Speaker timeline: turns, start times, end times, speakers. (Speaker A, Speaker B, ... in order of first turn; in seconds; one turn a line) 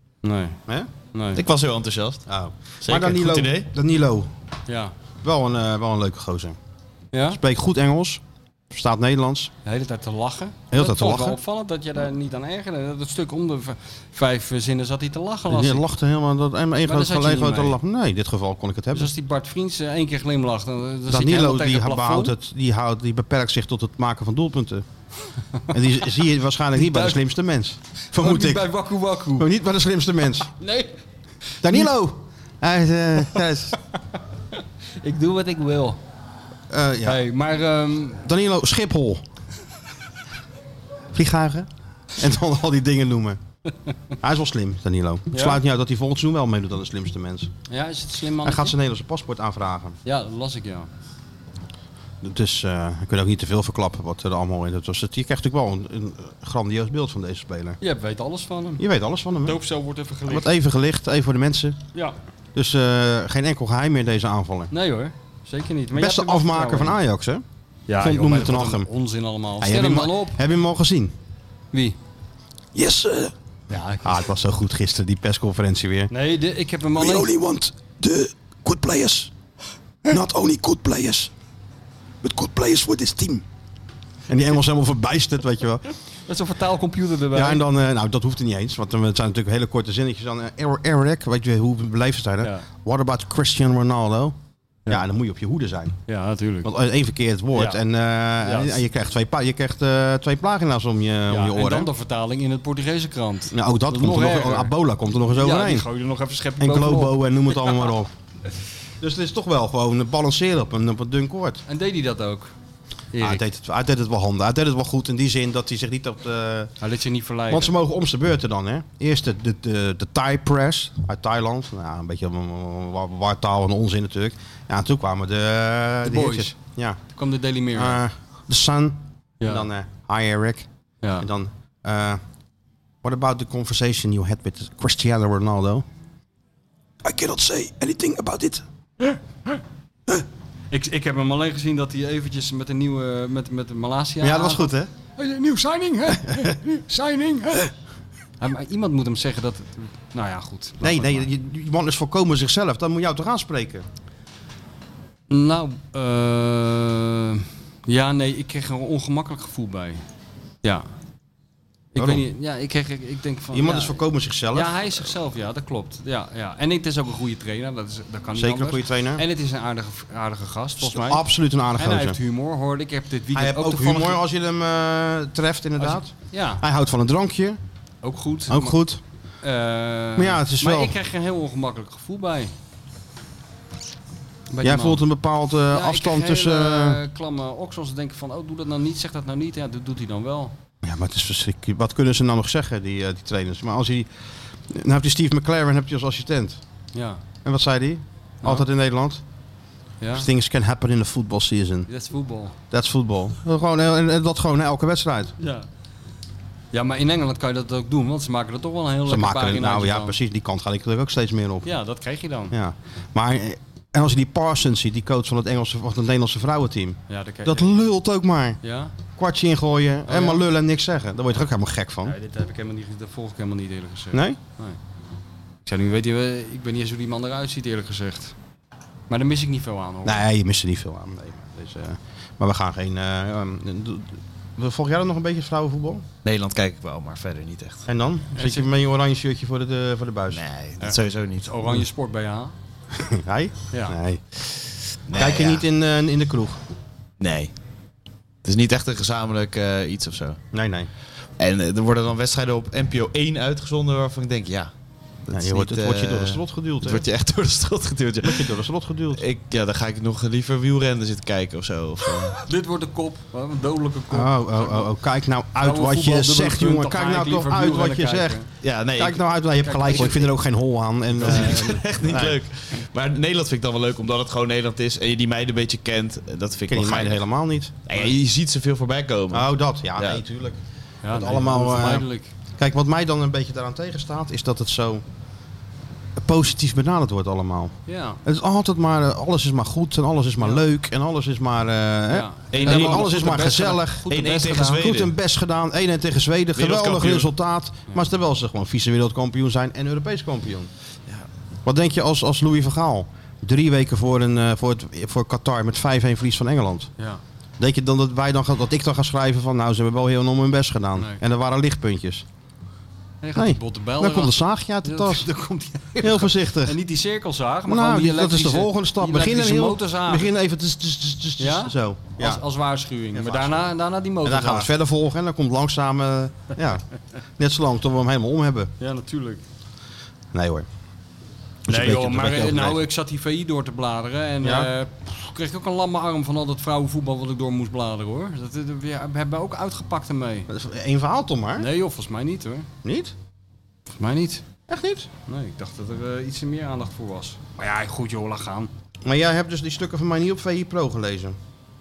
Speaker A: 0.2-0.6
Speaker A: 1.1-1.4
Speaker B: 1.4-2.2
Speaker C: 2.3-4.3
Speaker B: 2.8-3.7
Speaker A: 4.7-4.9
Speaker C: 5.2-6.6
Speaker A: 7.1-7.4
Speaker C: 7.3-9.5
Speaker A: 9.7-15.8
Speaker C: 10.7-11.4
Speaker C: 15.5-19.1
Speaker A: 16.9-17.8
Speaker A: 18.9-22.3
Speaker C: 21.1-24.9
Speaker C: 25.7-28.7
Speaker A: 26.8-27.2
Speaker A: 28.1-29.5
Speaker C: 29.4-30.5
Speaker A: 30.6-31.0
Speaker C: 31.6-33.8
Speaker A: 34.5-36.0
Speaker C: 36.7-37.2
Speaker A: 37.0-38.2
Speaker C: 38.2-39.2
Speaker C: 41.1-43.4
Speaker C: 44.2-47.5
Speaker A: 45.3-45.6
Speaker A: 47.7-48.7
Speaker C: 48.4-50.0
Speaker A: 50.0-50.9
Speaker C: 52.2-57.8
Speaker A: 57.8-58.8
Speaker C: 58.8-59.6
Speaker A: 59.4-60.5
Speaker C: 60.3-61.8
Speaker C: 62.5-64.7
Speaker A: 64.7-67.0
Speaker C: 65.9-67.4
Speaker A: 67.9-70.4
Speaker C: 68.0-68.9
Speaker C: 69.6-71.1
Speaker C: 72.7-73.3
Speaker A: 73.7-74.2
Speaker C: 74.0-76.1
Speaker A: 76.1-77.3
Speaker C: 77.0-79.3
Speaker C: 80.1-81.3
Speaker C: 82.2-83.5
Speaker C: 84.3-85.9
Speaker A: 86.3-87.6
Speaker C: 87.3-94.4
Speaker A: 92.4-92.7
Speaker C: 94.9-96.0
Speaker A: 96.1-96.7
Speaker C: 96.6-101.9
Speaker A: 97.5-97.8
Speaker A: 98.4-98.8
Speaker A: 101.3-104.7
Speaker C: 103.5-105.8
Speaker A: 105.4-107.8
Speaker C: 106.6-108.1
Speaker C: 109.0-111.6
Speaker A: 111.7-112.5
Speaker A: 113.1-113.4
Speaker C: 113.2-116.7
Speaker A: 116.8-117.7
Speaker C: 117.5-127.0
Speaker A: 126.0-126.6
Speaker A: 127.1-128.0
Speaker C: 127.8-130.7
Speaker A: 129.4-129.7
Speaker C: 131.2-132.2
Speaker C: 133.0-135.8
Speaker C: 137.0-138.7
Speaker A: 140.7-147.7
Speaker C: 144.2-144.9
Speaker C: 146.2-146.6
Speaker A: 148.4-151.3
Speaker C: 150.8-153.9
Speaker A: 155.3-160.0
Speaker A: 161.9-164.0
Speaker C: 162.0-162.2
Speaker C: 163.5-164.9
Speaker A: 164.5-171.2
Speaker C: 168.3-169.2
Speaker C: 170.8-172.2
Speaker A: 171.8-174.2
Speaker C: 173.3-177.6
Speaker A: 175.8-176.6
Speaker A: 178.0-178.8
Speaker C: 178.5-179.0
Speaker A: 179.4-182.5
Speaker C: 180.2-181.0
Speaker A: 184.5-185.1
Speaker C: 184.6-187.0
Speaker A: 185.7-190.5
Speaker C: 190.8-194.1
Speaker C: 194.7-196.6
Speaker A: 196.9-197.2
Speaker C: 197.4-199.2
Speaker A: 200.0-200.3
Speaker C: 200.1-201.9
Speaker A: 201.9-202.6
Speaker C: 202.7-205.3
Speaker A: 205.4-205.7
Speaker A: 206.7-210.2
Speaker C: 209.1-211.7
Speaker A: 211.6-212.5
Speaker C: 212.5-218.6
Speaker A: 217.1-217.8
Speaker A: 218.6-218.9
Speaker C: 219.1-222.1
Speaker A: 220.1-220.4
Speaker A: 222.0-224.8
Speaker C: 224.1-224.4
Speaker A: 225.7-228.3
Speaker A: 229.1-230.2
Speaker C: 230.0-236.1
Speaker B: 236.2-237.8
Speaker C: 237.9-240.4
Speaker A: 238.3-238.7
Speaker B: 240.3-241.5
Speaker A: 240.8-242.5
Speaker C: 243.0-244.2
Speaker B: 245.1-245.6
Speaker C: 245.1-246.6
Speaker B: 247.2-247.5
Speaker B: 248.4-250.4
Speaker C: 250.5-250.9
Speaker B: 251.4-254.7
Speaker C: 255.3-257.0
Speaker B: 255.3-258.6
Speaker C: 258.2-259.2
Speaker B: 259.1-262.4
Speaker A: 262.4-264.9
Speaker C: 264.1-268.4
Speaker A: 265.6-268.5
Speaker B: 268.6-269.2
Speaker C: 268.9-272.4
Speaker A: 269.6-270.3
Speaker B: 271.2-277.2
Speaker A: 271.3-271.7
Speaker C: 276.7-278.1
Speaker B: 277.9-280.2
Speaker C: 279.3-280.6
Speaker A: 281.0-282.3
Speaker C: 281.1-282.1
Speaker C: 282.6-285.0
Speaker C: 286.2-300.7
Speaker A: 287.9-288.2
Speaker A: 292.1-294.8
Speaker B: 292.5-293.1
Speaker B: 294.1-295.1
Speaker B: 296.6-297.3
Speaker C: 301.6-306.9
Speaker C: 307.6-312.2
Speaker A: 311.0-311.2
Speaker A: 313.2-320.3
Speaker C: 313.4-315.3
Speaker C: 316.0-316.8
Speaker C: 317.7-322.4
Speaker A: 321.4-324.7
Speaker C: 323.1-323.7
Speaker C: 324.2-326.8
Speaker C: 327.4-328.7
Speaker A: 328.8-329.4
Speaker C: 330.3-330.7
Speaker C: 331.7-332.8
Speaker A: 331.7-340.5
Speaker C: 334.4-334.7
Speaker C: 340.5-341.7
Speaker A: 341.6-342.7
Speaker C: 342.8-343.1
Speaker A: 344.0-344.4
Speaker C: 344.7-345.1
Speaker A: 345.3-348.7
Speaker C: 349.1-351.4